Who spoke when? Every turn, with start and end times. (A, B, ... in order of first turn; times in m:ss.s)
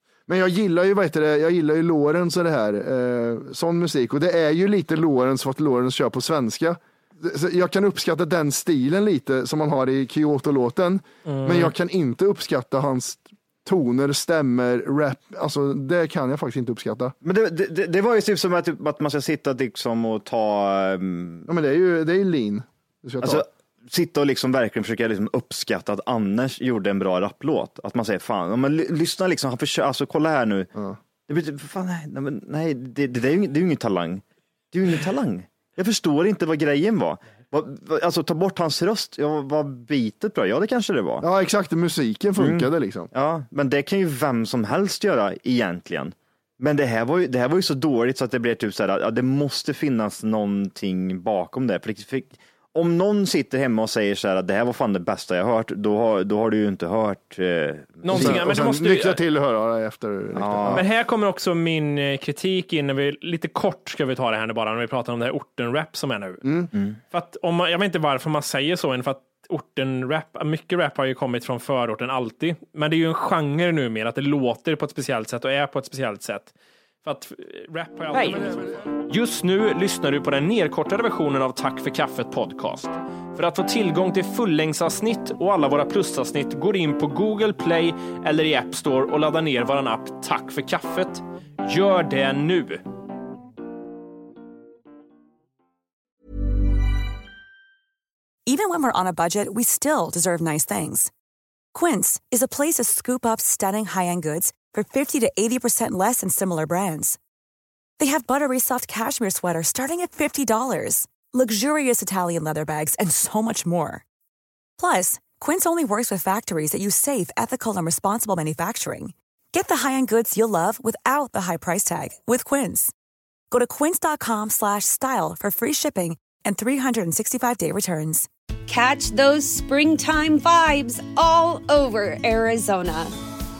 0:00.3-0:17.1 A
0:11.2-0:11.7 B
0:17.2-0:21.5 C
0:21.5-0:23.4 A
0:23.2-0:30.7 C
0:31.3-0:41.2 C
0:41.2-0:43.1 A
0:42.4-0:58.4 C
0:58.0-0:59.2 B
0:58.1-1:00.8 A
1:00.3-1:00.8 C
1:00.7-1:06.4 B
1:06.4-1:06.7 A
1:07.1-1:16.5 B
1:17.0-1:32.8 B
1:18.1-1:18.8 A
1:38.5-1:41.1 D
1:41.7-1:47.2 D
1:48.0-1:54.0 D
1:54.8-2:02.9 D
2:03.5-2:08.3 D
2:08.7-2:13.1 E